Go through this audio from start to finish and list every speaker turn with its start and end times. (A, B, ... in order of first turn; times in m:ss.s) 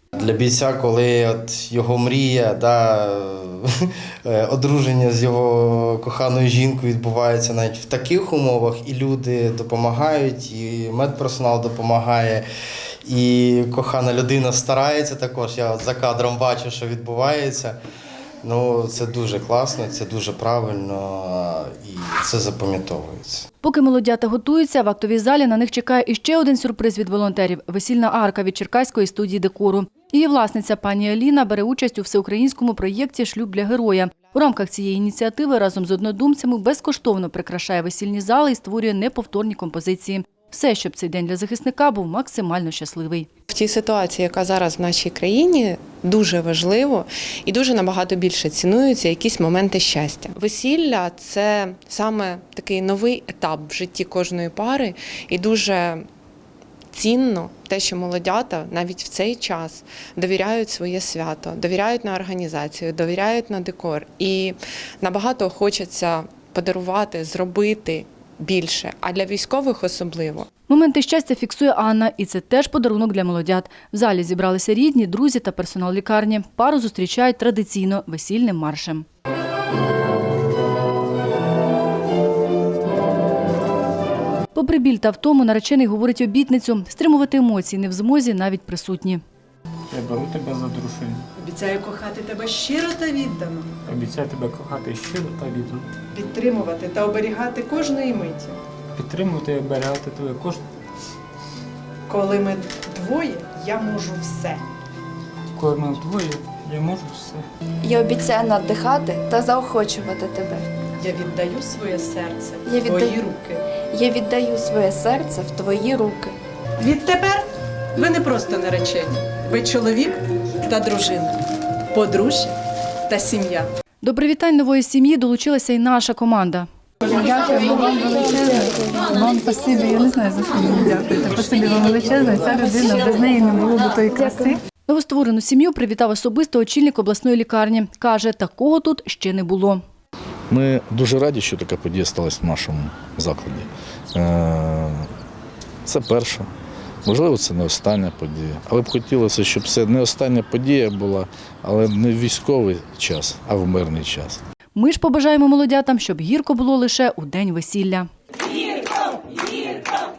0:00.2-0:03.7 A
0:04.2-0:12.4 A
0:13.0-0:17.8 A
0:18.4-0:23.4 A
0:23.6-0:43.3 B
0:43.7-0:55.9 C
0:57.0-1:04.5 C
1:05.0-1:10.4 C
1:10.7-1:19.0 B
1:24.5-1:29.2 B
1:29.9-1:31.2 D
1:31.4-1:33.7 E
1:33.8-1:35.9 D
1:36.1-1:38.6 E
1:39.0-1:40.6 D
1:42.1-1:44.6 E
1:45.5-1:47.5 D
1:47.8-1:50.6 F
1:51.0-1:53.6 E
1:52.6-1:53.2 F
1:53.9-1:56.4 F
1:56.8-1:57.4 E
1:58.0-2:01.4 E
2:01.9-2:02.5 E
2:03.1-2:03.7 E
2:04.0-2:06.7 B
2:07.6-2:08.7 G
2:09.7-2:10.4 G
2:11.4-2:13.0 G
2:14.9-2:19.8 B
2:20.5-2:25.0 H
2:25.8-2:26.5 H
2:27.0-2:34.4 H
2:34.7-2:38.1 B